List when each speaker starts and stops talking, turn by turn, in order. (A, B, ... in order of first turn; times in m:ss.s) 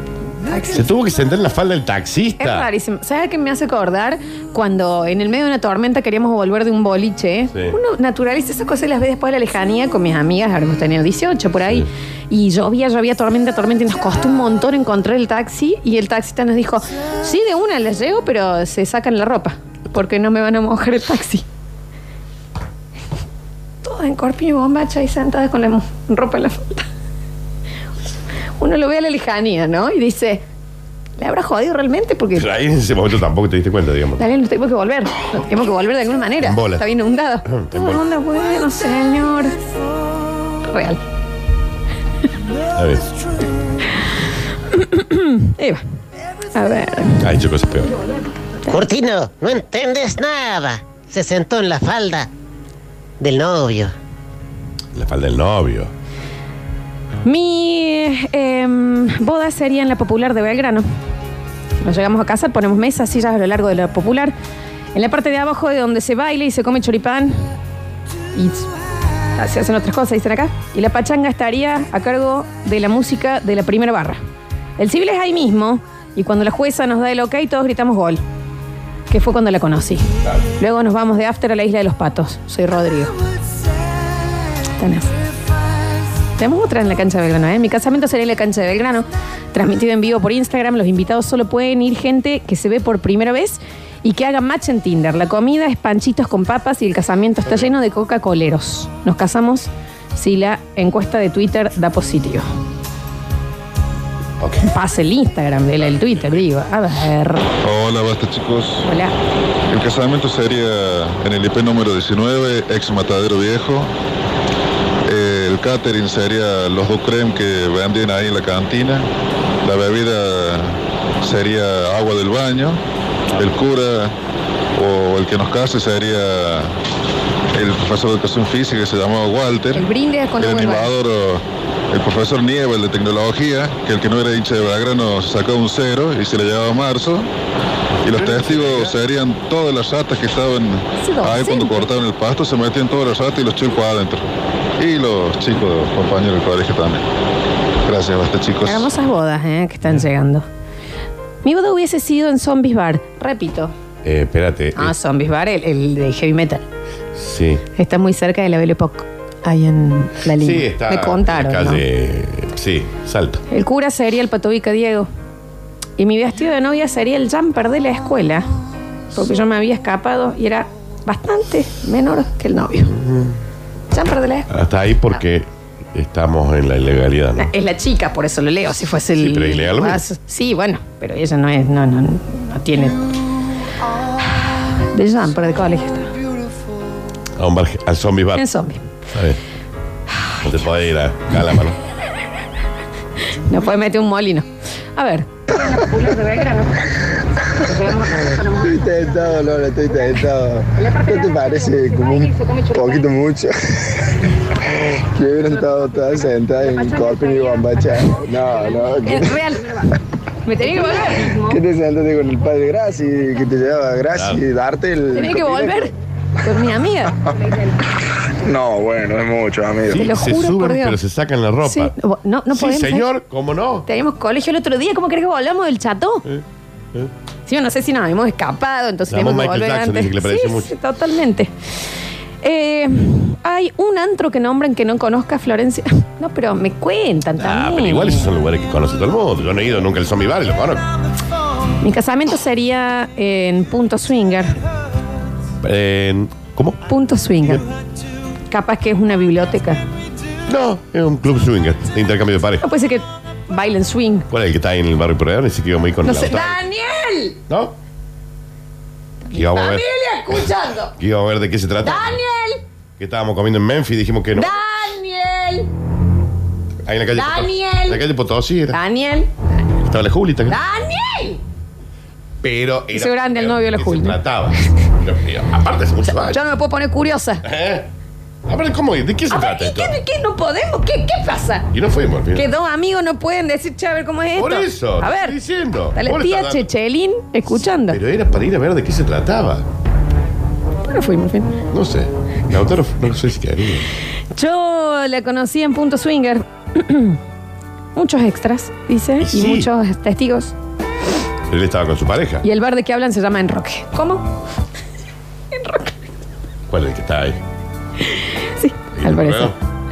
0:00.5-0:00.8 A
0:00.7-0:02.7 B
0:02.4-0:21.4 A
0:23.8-0:26.8 A
0:28.6-0:30.4 A
0:31.2-0:32.5 A
0:32.4-0:34.2 B
0:34.2-0:39.5 A
0:36.4-0:36.8 B
0:37.4-0:38.0 B
0:40.7-0:41.0 A
0:42.8-0:43.1 B
0:44.7-0:45.8 A
0:46.5-0:47.2 A
0:47.2-0:47.9 B
0:48.7-0:52.3 C
0:53.2-0:53.9 C
0:54.9-0:55.9 B
0:57.2-1:00.8 A
1:01.8-1:04.3 A
1:04.9-1:07.5 A
1:08.3-1:08.7 A
1:09.4-1:14.2 A
1:14.8-1:18.2 A
1:19.1-1:20.1 A
1:20.6-1:23.1 A
1:24.8-1:25.1 A
1:26.4-1:42.4 A
1:44.6-1:47.4 A
1:46.0-1:46.3 B
1:47.6-1:48.9 D
1:48.8-1:49.1 A
1:49.7-1:53.9 D
1:55.1-1:59.1 D
1:59.6-2:02.8 D
2:03.4-2:04.1 D
2:04.8-2:06.7 D
2:07.5-2:09.9 D
2:09.7-2:10.9 A
2:10.4-2:17.3 D
2:18.0-2:27.0 D
2:18.0-2:19.0 B
2:21.0-2:21.9 A
2:27.8-2:28.9 D
2:28.6-2:30.4 A
2:31.4-2:33.7 A
2:34.0-2:34.9 B
2:34.8-2:36.6 A
2:37.2-2:37.6 B
2:37.7-2:41.8 A
2:40.4-2:43.4 B
2:43.5-2:45.1 A
2:46.0-2:48.5 A
2:49.1-2:52.9 A
2:52.9-2:53.3 B
2:53.9-2:54.5 A
2:54.5-2:57.5 B
2:57.4-3:03.0 A
2:59.2-3:00.0 B
3:04.4-3:06.1 A
3:07.4-3:08.4 B
3:08.4-3:08.8 A
3:09.1-3:09.4 B
3:10.4-3:11.8 B
3:13.5-3:16.5 A
3:17.7-3:18.3 A
3:18.4-3:24.0 E
3:24.7-3:29.3 E
3:29.0-3:29.8 A
3:30.4-3:31.5 A
3:31.3-3:35.9 E
3:34.1-3:34.4 B
3:35.1-3:35.9 A
3:36.4-3:37.2 A
3:38.4-3:40.1 E
3:39.9-3:41.9 B
3:39.9-3:41.0 A
3:41.6-3:43.1 A
3:42.5-3:43.8 B
3:43.9-3:46.2 A
3:47.5-3:51.5 A
3:49.1-3:50.7 B
3:52.4-3:58.3 A
3:57.4-4:00.8 B
4:01.8-4:04.5 A
4:05.6-4:06.8 B
4:06.9-4:07.6 A
4:08.5-4:09.8 A
4:10.5-4:12.6 B
4:12.6-4:14.3 A
4:14.3-4:16.6 B
4:16.0-4:17.4 A
4:17.5-4:17.7 B
4:19.3-4:20.9 A
4:19.3-4:22.2 B
4:21.8-4:22.6 A
4:23.0-4:24.5 B
4:24.4-4:25.7 A
4:26.8-4:28.8 B
4:27.1-4:28.0 A
4:28.7-4:29.3 A
4:29.8-4:30.6 B
4:30.5-4:31.4 A
4:32.4-4:36.4 B
4:32.9-4:34.2 A
4:36.1-4:37.4 A
4:37.4-4:37.9 B
4:38.5-4:40.0 B
4:39.3-4:41.7 A
4:41.7-4:42.5 B
4:42.3-4:45.3 A
4:44.4-4:46.7 B
4:46.0-4:48.0 A
4:47.9-4:49.6 B
4:50.9-4:51.6 A
4:51.7-4:53.9 B
4:54.3-4:57.2 A
4:58.0-5:00.5 A
4:59.2-4:59.7 B
5:01.5-5:02.4 B
5:02.4-5:04.3 A
5:05.5-5:05.9 A
5:06.7-5:07.4 B
5:08.6-5:09.5 A
5:09.0-5:09.5 B